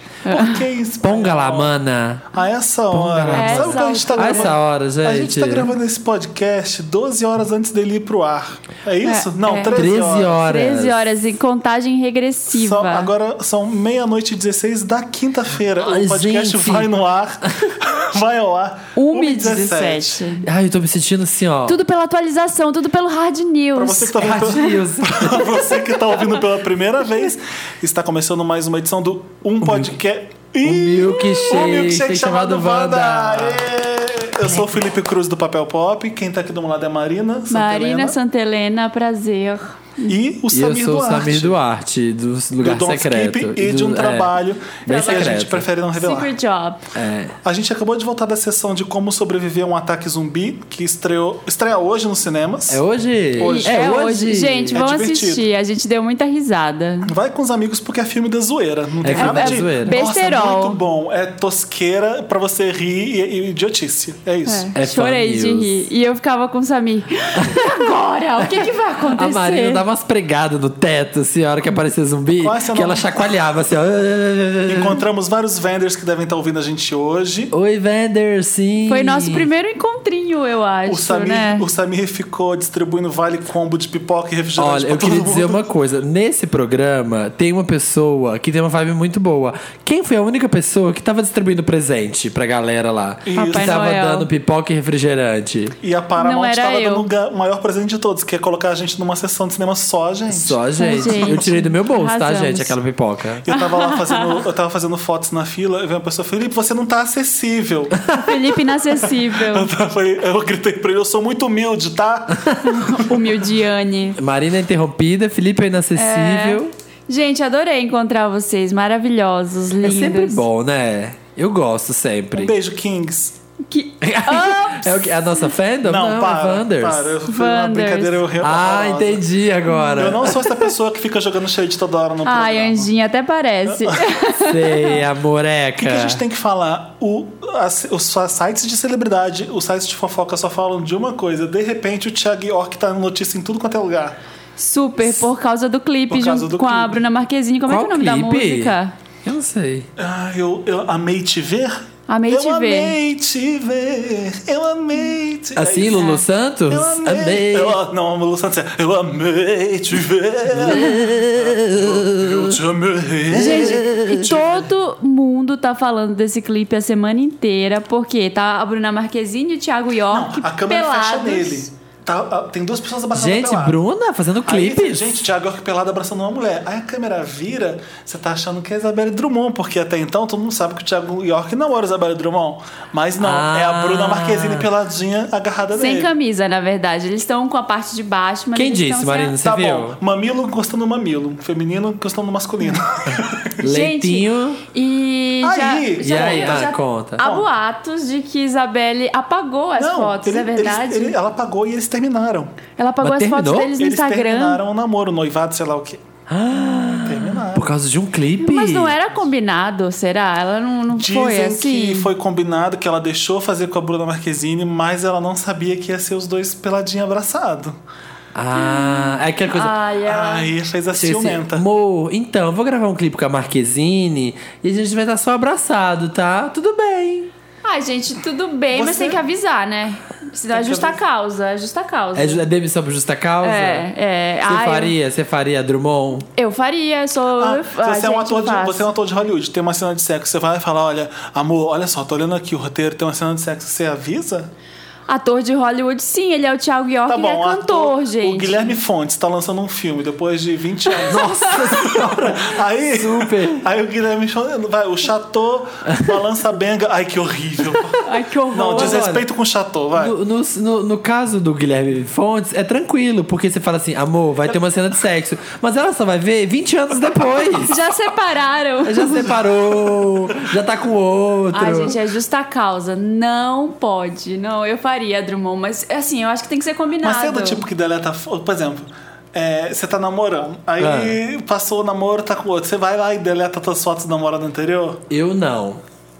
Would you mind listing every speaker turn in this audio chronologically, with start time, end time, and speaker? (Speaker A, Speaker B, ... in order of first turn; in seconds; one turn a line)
Speaker A: 0.2-0.6
Speaker B: 0.3-1.7
Speaker C: 1.0-2.3
Speaker B: 2.3-10.4
Speaker C: 2.9-5.7
Speaker A: 3.3-4.5
Speaker A: 9.0-13.1
Speaker C: 9.7-11.1
Speaker B: 12.5-20.2
Speaker C: 15.8-16.9
Speaker A: 18.9-20.4
Speaker C: 20.4-21.8
Speaker A: 21.7-24.4
Speaker B: 23.8-38.2
Speaker C: 24.2-25.5
Speaker C: 29.6-29.9
Speaker C: 30.6-33.6
Speaker A: 37.5-40.1
Speaker B: 40.1-41.6
Speaker C: 40.5-45.7
Speaker B: 42.6-46.3
Speaker A: 44.9-45.3
Speaker A: 46.0-46.8
Speaker C: 46.9-47.4
Speaker B: 47.4-54.1
Speaker C: 52.7-54.8
Speaker A: 53.4-57.1
Speaker B: 54.7-55.5
Speaker B: 57.0-64.7
Speaker C: 59.0-60.0
Speaker A: 59.2-60.8
Speaker A: 64.5-69.8
Speaker C: 64.8-65.9
Speaker C: 67.4-67.7
Speaker C: 68.4-75.0
Speaker B: 72.4-73.4
Speaker B: 74.7-77.5
Speaker C: 77.5-79.5
Speaker A: 78.9-81.7
Speaker B: 80.9-85.7
Speaker C: 84.6-95.8
Speaker B: 93.2-93.9
Speaker A: 93.3-94.3
Speaker B: 95.8-101.4
Speaker A: 96.2-97.1
Speaker C: 100.3-103.4
Speaker A: 100.8-102.7
Speaker B: 103.4-108.0
Speaker A: 103.5-104.4
Speaker A: 108.2-109.7
Speaker B: 109.2-112.5
Speaker A: 112.6-114.2
Speaker C: 114.2-116.7
Speaker A: 116.0-120.4
Speaker C: 119.8-122.5
Speaker B: 122.3-123.4
Speaker A: 123.7-125.5
Speaker C: 124.0-127.2
Speaker B: 125.8-129.3
Speaker A: 127.3-128.2
Speaker C: 128.4-130.4
Speaker A: 129.7-130.1
Speaker B: 129.9-132.9
Speaker A: 132.2-135.0
Speaker B: 133.7-134.0
Speaker C: 134.4-136.2
Speaker B: 135.8-144.2
Speaker A: 144.6-148.9
Speaker B: 146.1-147.0
Speaker C: 147.7-149.9
Speaker B: 150.0-156.1
Speaker A: 152.1-152.9
Speaker C: 155.6-157.8
Speaker A: 155.9-156.2
Speaker B: 156.7-164.6
Speaker C: 160.5-162.6
Speaker A: 160.7-160.9
Speaker C: 163.3-164.5
Speaker A: 163.4-171.7
Speaker B: 170.1-173.8
Speaker C: 173.1-175.2
Speaker B: 174.5-186.1
Speaker C: 183.2-184.7
Speaker A: 185.8-189.3
Speaker C: 188.6-190.0
Speaker B: 189.4-193.6
Speaker C: 193.6-194.6
Speaker A: 193.7-201.2
Speaker B: 195.4-197.5
Speaker C: 196.0-197.2
Speaker B: 199.8-202.6
Speaker A: 202.8-204.6
Speaker C: 203.0-203.7
Speaker B: 203.8-206.0
Speaker C: 206.3-209.0
Speaker B: 207.1-207.7
Speaker A: 208.4-212.1
Speaker B: 210.9-217.8
Speaker C: 218.3-219.8
Speaker A: 218.5-220.5
Speaker B: 220.1-221.7
Speaker C: 220.9-227.3
Speaker A: 227.6-232.4
Speaker B: 228.7-229.2
Speaker B: 230.5-231.0
Speaker C: 232.2-233.9
Speaker A: 233.4-234.9
Speaker C: 234.5-236.3
Speaker A: 236.4-238.9
Speaker B: 237.4-244.5
Speaker A: 245.1-248.7
Speaker B: 247.1-258.0
Speaker A: 251.0-251.3
Speaker C: 251.1-253.7
Speaker A: 258.0-259.0
Speaker B: 258.5-260.1
Speaker C: 258.7-259.3
Speaker C: 260.0-267.8
Speaker A: 267.7-269.2
Speaker C: 268.8-272.0
Speaker B: 269.1-270.4
Speaker A: 271.5-277.6
Speaker B: 277.0-285.1
Speaker C: 280.8-281.2
Speaker C: 285.1-285.8